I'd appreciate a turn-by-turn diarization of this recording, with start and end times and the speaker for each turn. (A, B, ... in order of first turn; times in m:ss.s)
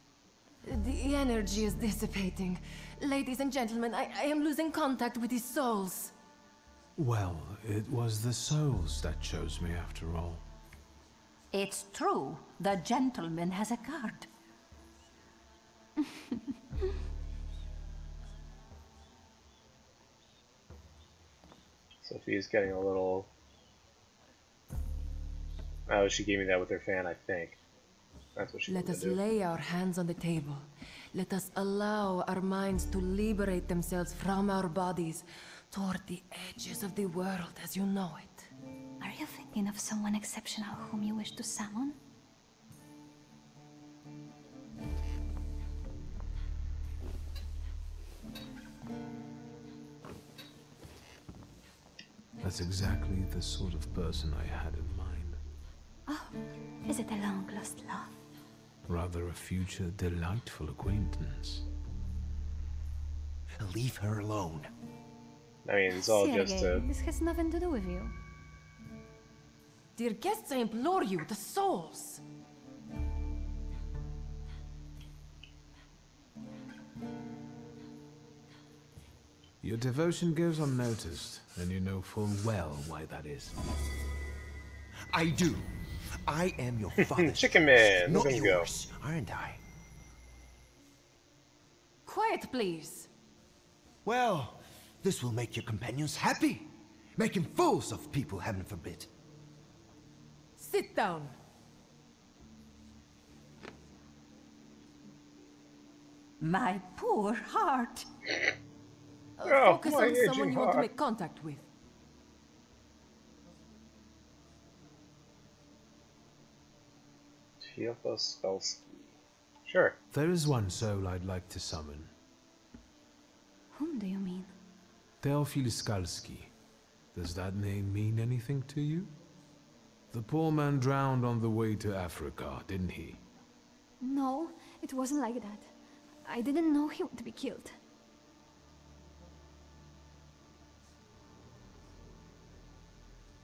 0:00.7-0:06.1 A
0:07.0-0:10.4 B
0:11.5-0:14.3 C
0:16.1-0:16.4 D
0:22.0-0:23.3 E
0:25.9-0:27.6 E
0:28.4-0:29.2 E
0:28.7-0:38.5 A
0:39.0-0:42.0 D
0:52.4-0:55.4 B
0:56.1-0:56.4 D
0:56.9-0:58.2 D
0:58.9-1:01.6 B
1:03.6-1:04.7 F
1:05.6-1:06.8 E
1:05.9-1:08.2 D
1:10.0-1:12.2 A
1:19.6-1:23.6 B
1:25.1-1:25.7 F
1:26.2-1:29.6 F
1:27.0-1:28.7 E
1:32.1-1:33.1 A
1:34.0-1:39.1 F
1:40.6-1:41.4 A
1:46.4-1:48.1 C
1:49.4-1:51.7 A
1:49.4-1:50.9 E
1:57.6-2:00.0 E
2:00.1-2:02.1 B
2:03.7-2:04.5 D
2:05.2-2:06.5 B
2:07.1-2:09.1 B
2:10.1-2:13.2 B
2:14.0-2:15.7 D
2:16.3-2:17.8 D